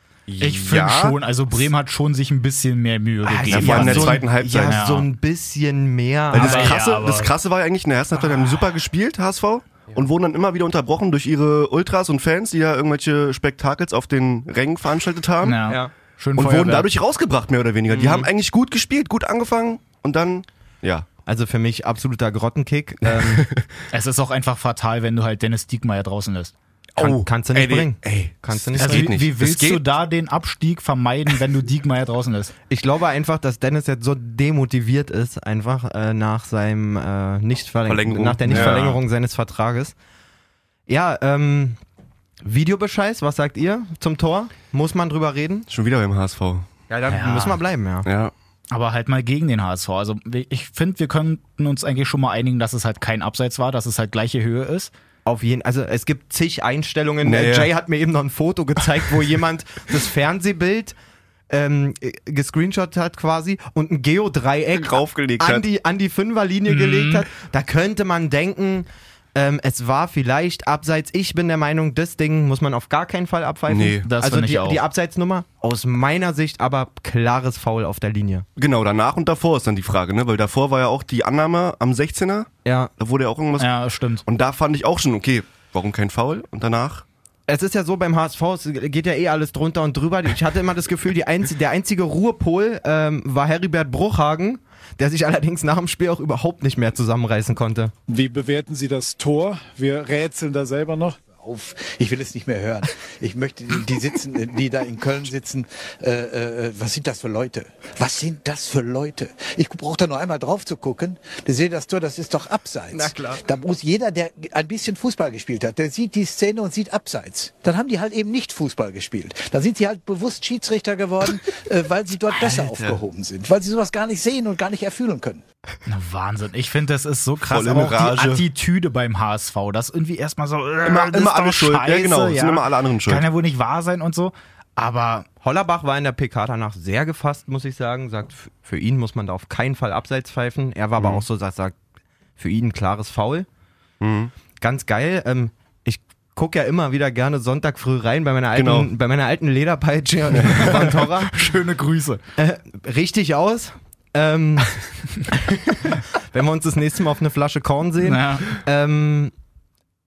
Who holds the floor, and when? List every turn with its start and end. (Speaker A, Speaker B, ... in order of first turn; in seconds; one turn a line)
Speaker A: 0.3-1.2
Speaker B: 0.4-5.1
Speaker C: 3.3-6.9
Speaker A: 3.5-4.8
Speaker A: 6.3-15.6
Speaker B: 6.3-7.3
Speaker B: 15.4-16.9
Speaker A: 16.4-21.1
Speaker C: 17.9-18.3
Speaker C: 21.3-23.5
Speaker A: 23.1-23.6
Speaker B: 23.9-26.5
Speaker A: 27.0-29.8
Speaker C: 27.0-29.2
Speaker B: 28.8-32.5
Speaker C: 32.7-40.0
Speaker A: 37.9-39.0
Speaker C: 40.9-41.8
Speaker C: 42.4-45.7
Speaker A: 45.7-46.7
Speaker C: 46.9-48.1
Speaker B: 47.1-47.6
Speaker A: 48.0-48.3
Speaker B: 48.7-54.9
Speaker C: 55.2-60.9
Speaker A: 57.2-57.7
Speaker C: 61.5-78.5
Speaker A: 64.8-65.7
Speaker B: 66.7-67.3
Speaker A: 73.7-74.1
Speaker B: 74.0-74.8
Speaker A: 78.6-87.0
Speaker C: 82.7-82.9
Speaker B: 83.6-84.2
Speaker C: 87.5-97.9
Speaker D: 98.1-101.2
Speaker E: 101.3-125.4
Speaker C: 112.9-113.4
Speaker A: 122.7-123.0
Speaker B: 125.9-135.3
Speaker A: 127.4-128.4
Speaker A: 130.8-133.2
Speaker C: 135.4-141.8
Speaker A: 141.0-141.2
Speaker C: 142.4-143.5
Speaker A: 144.0-144.3
Speaker C: 144.6-151.5
Speaker A: 148.5-148.9
Speaker A: 150.3-150.8
Speaker B: 150.5-152.2
Speaker C: 152.4-159.3
Speaker B: 158.0-158.4